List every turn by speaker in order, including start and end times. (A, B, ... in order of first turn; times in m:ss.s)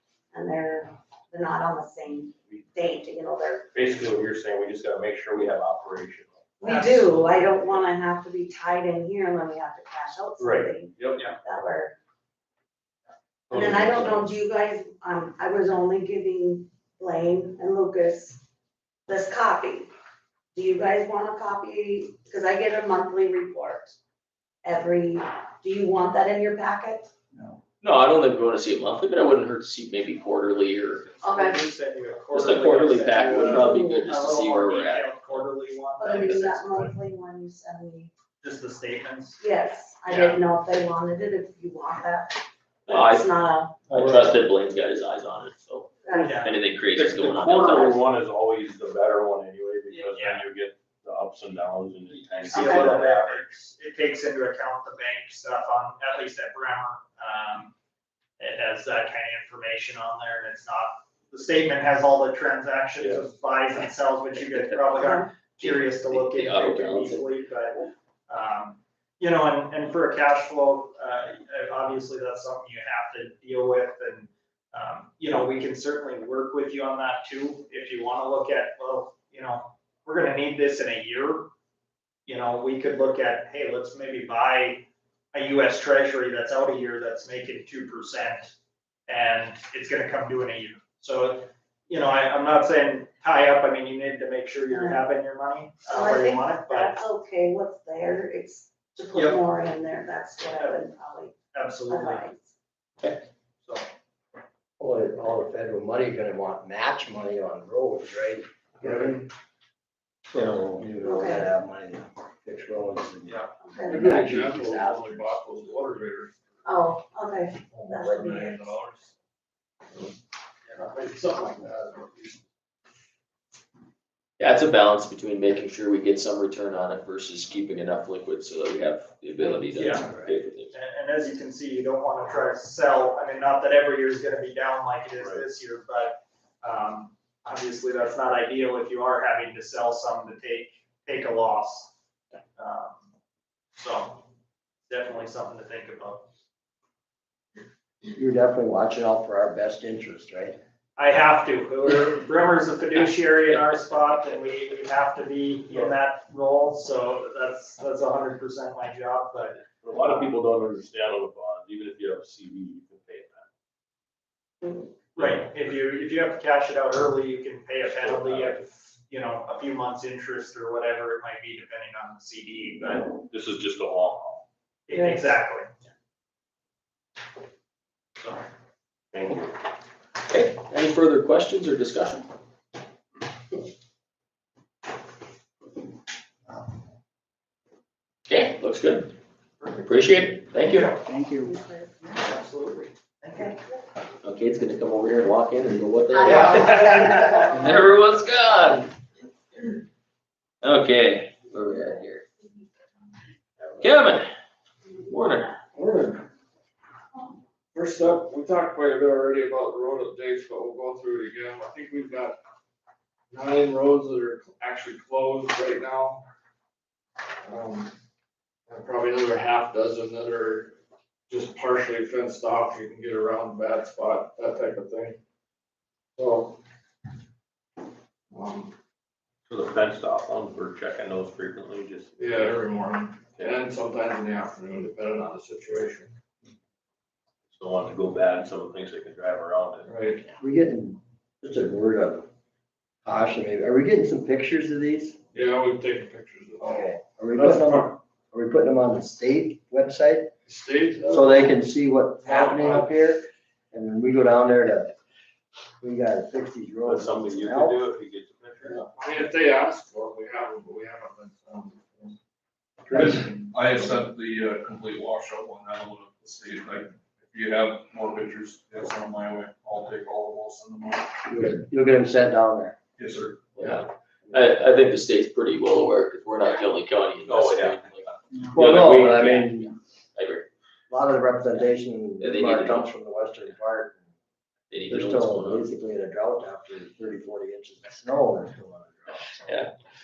0:00.3-0:03.7 A
0:03.7-0:06.7 B
0:06.6-0:12.0 A
0:06.6-0:07.3 C
0:10.4-0:11.3 B
0:13.5-0:18.4 A
0:13.5-0:14.3 B
0:19.1-0:19.9 A
0:20.5-0:24.0 A
0:24.6-0:27.1 A
0:27.8-0:31.0 D
0:31.0-0:37.0 C
0:31.2-0:31.6 A
0:32.3-0:35.4 D
0:33.4-0:34.0 A
0:36.0-0:38.1 A
0:38.4-0:39.4 C
0:39.4-0:43.8 A
0:40.1-0:40.4 C
0:42.9-0:43.4 D
0:43.9-0:48.0 D
0:46.0-0:46.4 A
0:46.1-0:46.6 C
0:46.9-0:53.5 B
0:49.9-0:50.4 C
0:52.5-0:53.0 A
0:52.5-0:57.7 C
0:58.4-1:21.5 C
1:03.0-1:03.3 B
1:05.0-1:05.3 A
1:05.6-1:07.2 D
1:22.2-1:28.5 C
1:29.1-1:37.1 C
1:34.7-1:35.0 A
1:35.9-1:41.4 A
1:39.1-1:39.4 C
1:40.6-1:40.8 C
1:41.5-1:42.3 C
1:41.9-1:42.5 A
1:44.8-1:49.3 E
1:50.3-1:55.2 E
1:51.0-1:51.5 A
1:53.6-1:54.1 A
1:53.9-1:56.4 F
1:56.6-1:58.8 A
1:58.6-1:59.1 F
2:00.7-2:02.4 F
2:04.4-2:10.7 D
2:09.7-2:21.9 C
2:15.2-2:15.4 B
2:22.6-2:23.0 C
2:23.8-2:24.2 C
2:24.9-2:26.2 C
2:28.1-2:30.6 E
2:31.0-2:39.6 C
2:39.8-2:43.4 B
2:45.2-2:53.2 C
2:48.0-2:48.6 B
2:53.3-2:54.4 B
2:54.9-2:55.7 C
2:54.9-2:55.2 A
2:59.1-2:59.4 B
3:00.3-3:02.2 D
3:08.3-3:09.1 D
3:09.8-3:11.0 D
3:11.3-3:12.0 A
3:12.0-3:13.6 C
3:14.2-3:18.9 D
3:16.2-3:17.4 A
3:20.6-3:22.2 D
3:23.8-3:24.3 D
3:25.0-3:25.5 D
3:25.7-3:26.2 F
3:27.7-3:32.4 F
3:33.3-3:36.2 F
3:37.4-3:37.9 F
3:38.7-3:40.8 F
3:41.3-3:45.2 F
3:46.2-3:46.6 F
3:48.3-3:48.7 F
3:49.5-3:52.7 B
3:52.2-3:56.1 F
3:53.3-3:53.6 B
3:57.5-3:59.9 B
3:59.8-4:00.2 F
4:00.4-4:02.3 E
4:03.0-4:05.2 E
4:05.3-4:06.8 F
4:06.6-4:10.3 E
4:07.4-4:07.6 F
4:10.5-4:11.2 F
4:11.1-4:14.9 E
4:12.3-4:12.8 F
4:15.8-4:17.8 E
4:16.8-4:18.8 B
4:18.7-4:22.2 F
4:22.9-4:31.2 G
4:31.3-4:32.8 E
4:33.0-4:33.6 G
4:33.6-4:40.5 D
4:37.2-4:37.9 B
4:38.5-4:39.7 E
4:40.9-4:44.0 E
4:42.2-4:42.9 D
4:44.7-4:45.7 D
4:44.9-4:49.4 E